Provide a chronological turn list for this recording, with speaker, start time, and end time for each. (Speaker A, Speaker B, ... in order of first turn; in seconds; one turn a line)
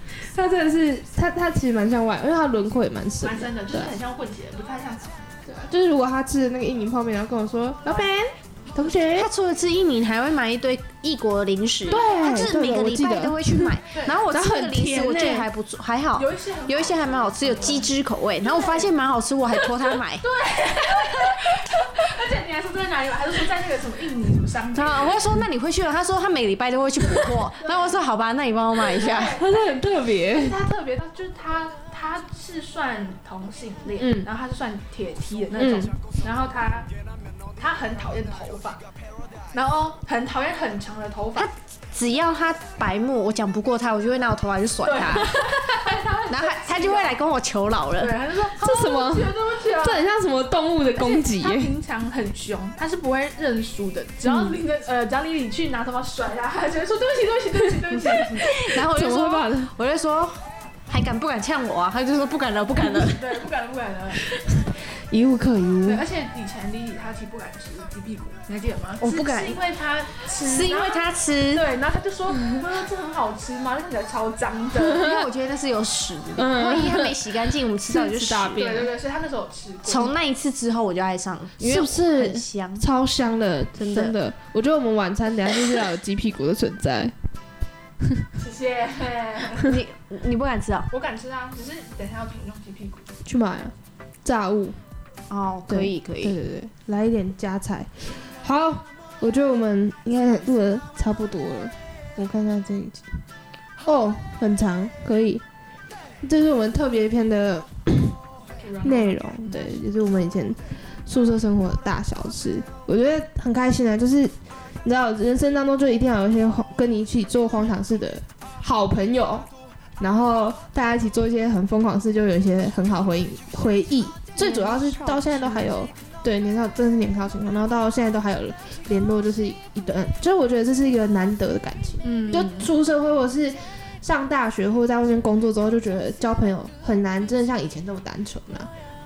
Speaker A: 0.3-3.9
Speaker B: 3.2-5.2
Speaker A: 5.5-9.3
Speaker C: 9.1-20.2
Speaker A: 11.9-15.5
Speaker B: 13.9-14.2
Speaker B: 16.1-17.9
Speaker B: 18.4-18.9
Speaker B: 20.2-25.2
Speaker C: 24.7-29.4
Speaker B: 27.6-27.9
Speaker B: 29.0-29.4
Speaker A: 29.2-30.6
Speaker B: 30.3-36.9
Speaker A: 34.0-34.3
Speaker A: 35.6-35.9
Speaker B: 37.5-38.8
Speaker B: 39.5-41.5
Speaker C: 41.4-45.6
Speaker B: 44.8-47.2
Speaker C: 46.3-48.1
Speaker B: 48.0-50.0
Speaker A: 48.6-51.7
Speaker B: 51.0-58.5
Speaker A: 58.3-59.7
Speaker C: 58.4-63.2
Speaker B: 63.0-64.2
Speaker A: 64.4-66.0
Speaker B: 65.8-75.1
Speaker C: 69.0-69.6
Speaker C: 70.3-71.6
Speaker A: 74.8-75.2
Speaker C: 74.8-78.8
Speaker A: 76.4-78.9
Speaker B: 78.5-80.1
Speaker C: 79.8-82.8
Speaker A: 81.6-87.1
Speaker C: 83.8-84.1
Speaker B: 88.3-89.7
Speaker C: 89.6-90.9
Speaker B: 90.9-93.0
Speaker A: 93.2-94.8
Speaker C: 95.3-96.4
Speaker A: 95.7-103.2
Speaker A: 103.8-105.4
Speaker A: 106.2-108.2
Speaker B: 108.6-109.7
Speaker A: 108.8-119.5
Speaker A: 120.0-138.7
Speaker B: 124.4-125.7
Speaker B: 132.0-132.7